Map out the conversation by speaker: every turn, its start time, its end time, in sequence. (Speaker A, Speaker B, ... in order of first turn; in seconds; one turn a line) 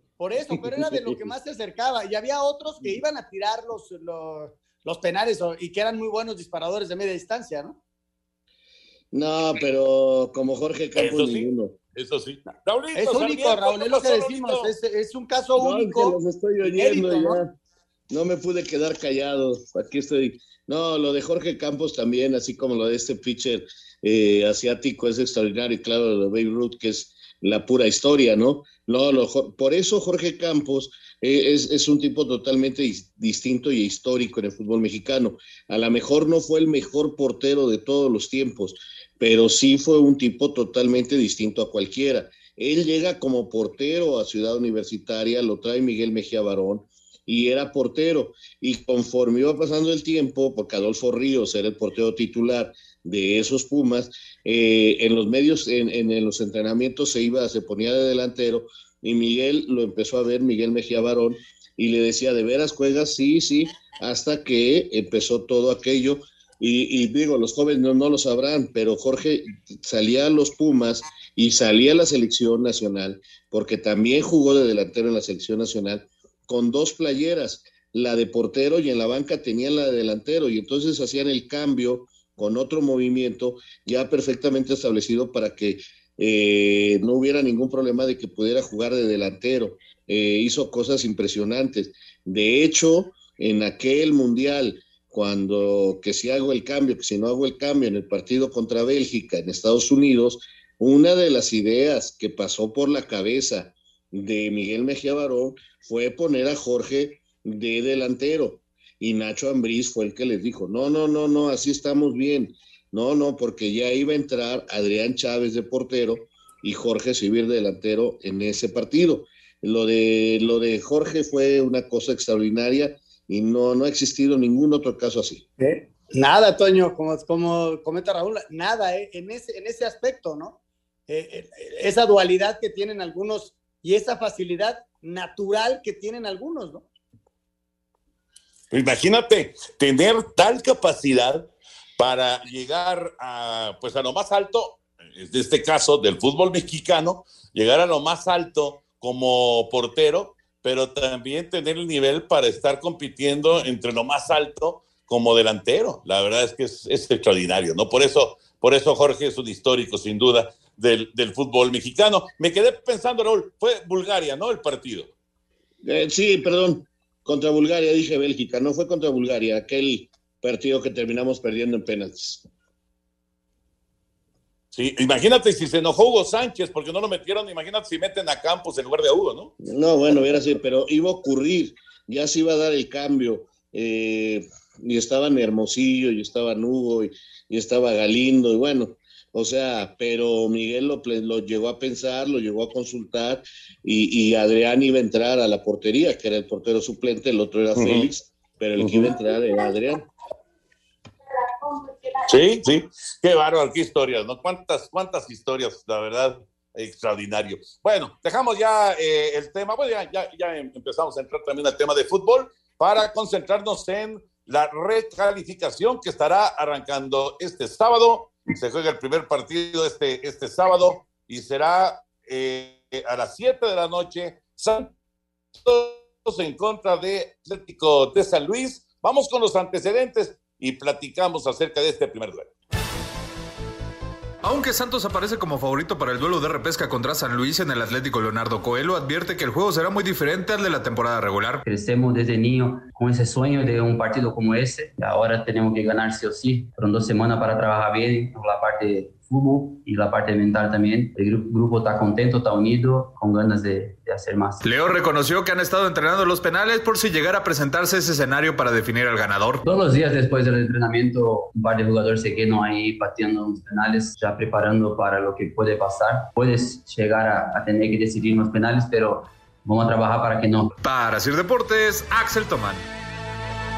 Speaker A: 0.2-7.8
Speaker B: 0.8-1.1
Speaker B: 9.1-11.7
Speaker C: 11.0-14.7
Speaker A: 12.9-17.4
Speaker B: 15.6-17.5
Speaker B: 18.1-125.4
Speaker A: 125.6-130.5
Speaker A: 131.1-136.8
Speaker C: 138.7-141.5
Speaker C: 142.0-165.1
Speaker B: 165.8-172.4
Speaker C: 174.7-179.5
Speaker B: 179.6-200.0
Speaker C: 197.8-198.1
Speaker C: 198.8-199.1
Speaker C: 202.2-224.9
Speaker C: 225.6-232.5
Speaker D: 234.4-241.7
Speaker E: 241.7-254.6
Speaker D: 254.6-259.7
Speaker E: 259.6-270.7
Speaker D: 270.8-272.8